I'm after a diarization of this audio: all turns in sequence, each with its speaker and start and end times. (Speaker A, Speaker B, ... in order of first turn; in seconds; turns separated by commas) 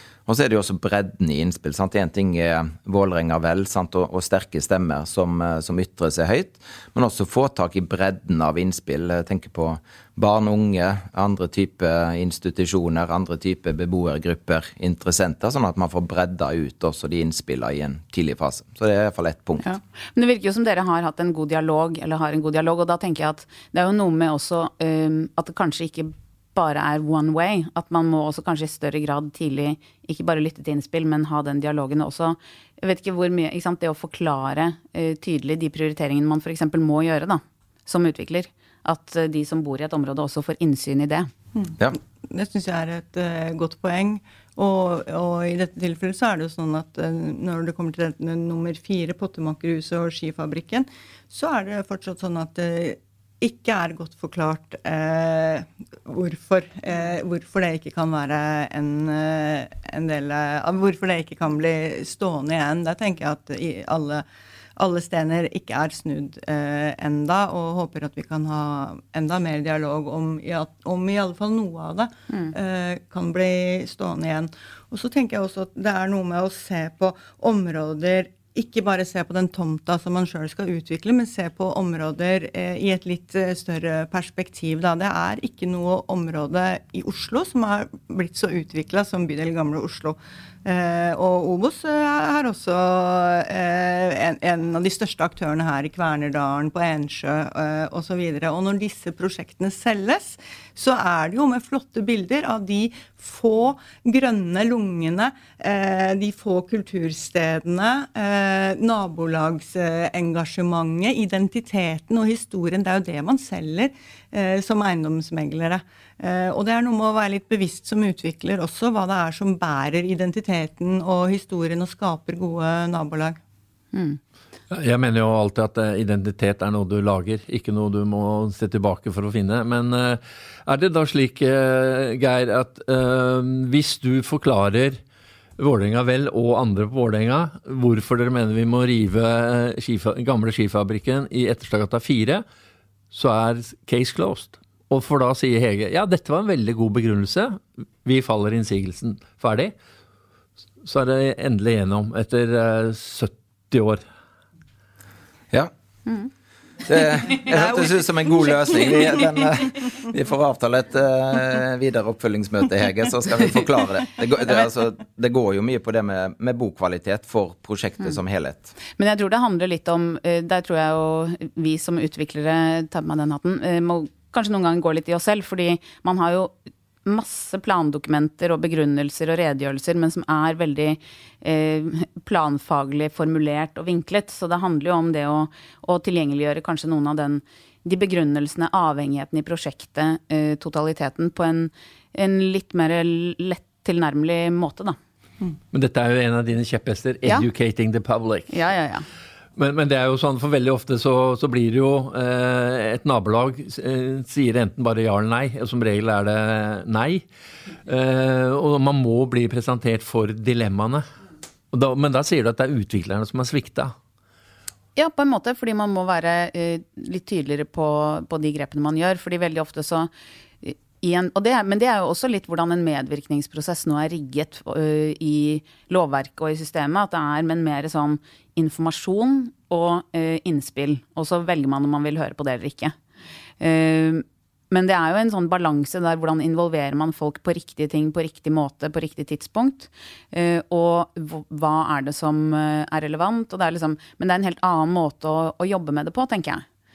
Speaker A: 0.3-19.7, Speaker B: 19.6-41.3, Speaker C: 41.5-64.2, Speaker C: 64.8-123.4, Speaker B: 123.9-124.2, Speaker D: 124.7-135.0, Speaker D: 135.6-142.4, Speaker D: 143.1-149.7, Speaker D: 150.8-154.0, Speaker A: 156.9-168.7, Speaker B: 169.0-195.0, Speaker D: 195.7-198.5, Speaker B: 198.5-199.1, Speaker D: 199.6-207.2, Speaker D: 207.9-211.1, Speaker D: 211.7-213.9, Speaker B: 215.0-220.1, Speaker B: 220.6-233.0, Speaker B: 233.6-246.7